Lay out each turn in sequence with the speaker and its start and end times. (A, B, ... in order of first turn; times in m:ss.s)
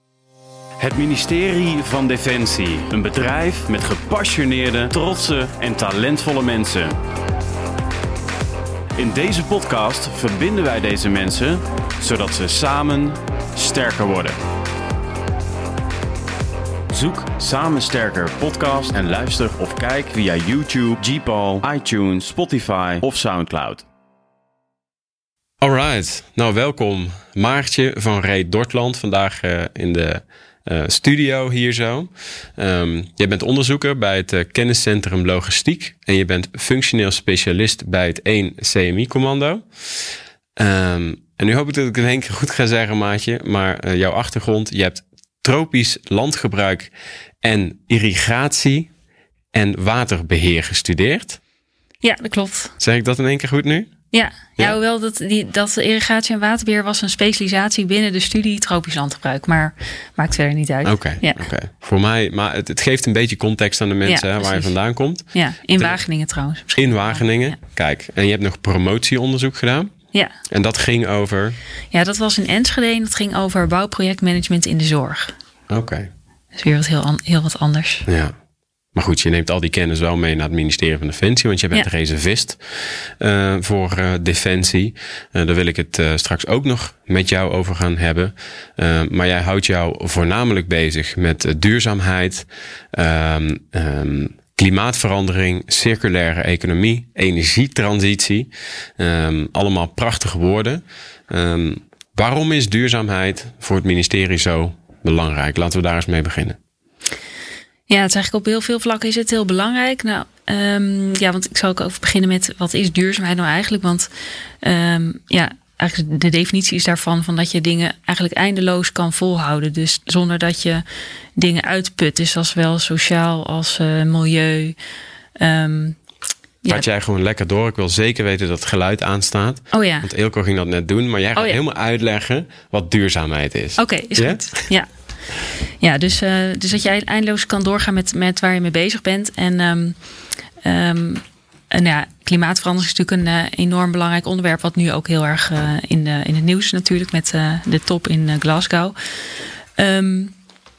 0:00.8-0:06.9 A
0:09.0-0:14.4 A
0:16.9-0:23.8 A
0:25.6-0:39.6 B
0:40.6-0:48.9 B
0:49.5-0:51.4 B
0:52.0-0:52.7 C
0:52.8-0:53.9 B
0:54.1-1:01.4 C
1:00.8-1:06.0 B
1:04.0-1:04.7 C
1:05.3-1:07.6 C
1:06.8-1:09.9 B
1:10.5-1:11.6 B
1:11.9-1:15.3 C
1:15.7-1:16.1 B
1:16.5-1:18.0 C
1:18.1-1:18.3 B
1:18.9-1:46.6 B
1:47.9-1:54.1 C
1:54.6-2:00.8 C
2:01.4-2:04.8 C
2:05.4-2:06.0 C
2:06.7-2:14.4 B
2:09.7-2:10.1 C
2:13.8-2:14.9 C
2:15.8-2:20.0 C
2:20.6-2:29.0 C
2:29.8-2:30.3 C